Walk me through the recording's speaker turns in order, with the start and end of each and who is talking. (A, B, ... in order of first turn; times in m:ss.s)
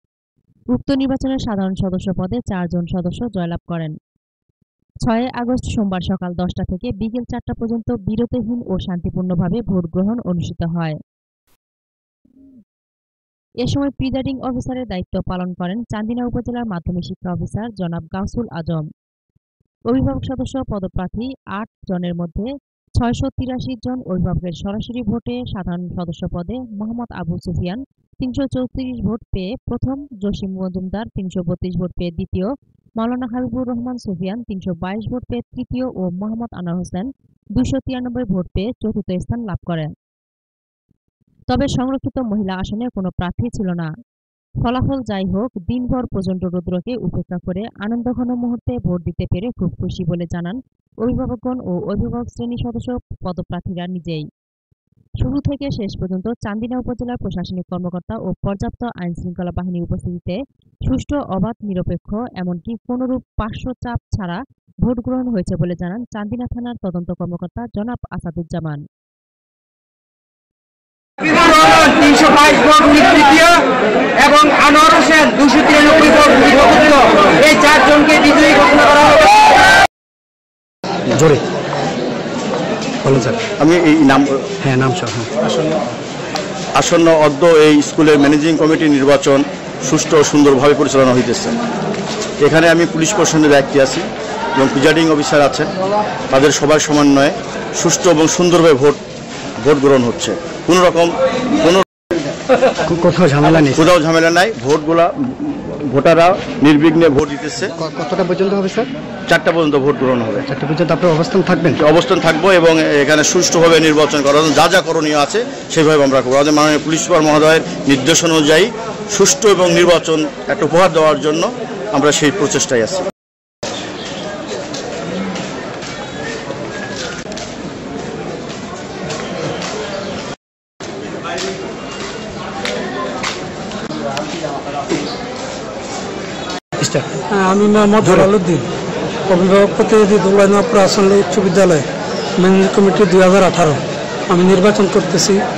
0:00.8-0:04.0 A
0:05.1-0:11.0 A
0:13.6-0:18.8 A
0:19.9-0:39.9 A
0:41.5-0:43.9 A
0:44.6-0:54.3 A
0:55.2-1:08.8 A
1:11.3-1:13.6 B
1:14.2-1:19.2 B
1:21.1-1:21.4 C
1:23.0-1:23.4 C
1:23.6-1:24.5 D
1:24.6-1:25.4 C
1:26.8-1:31.6 D
1:32.4-1:35.7 D
1:36.3-1:39.0 D
1:39.6-1:41.8 D
1:42.8-1:43.9 C
1:43.7-1:47.7 D
1:47.8-1:48.9 C
1:49.3-1:50.5 D
1:50.4-1:51.8 C
1:51.8-2:03.1 D
2:16.8-2:17.2 C
2:17.3-2:18.7 E
2:19.3-2:21.9 E
2:22.4-2:25.4 E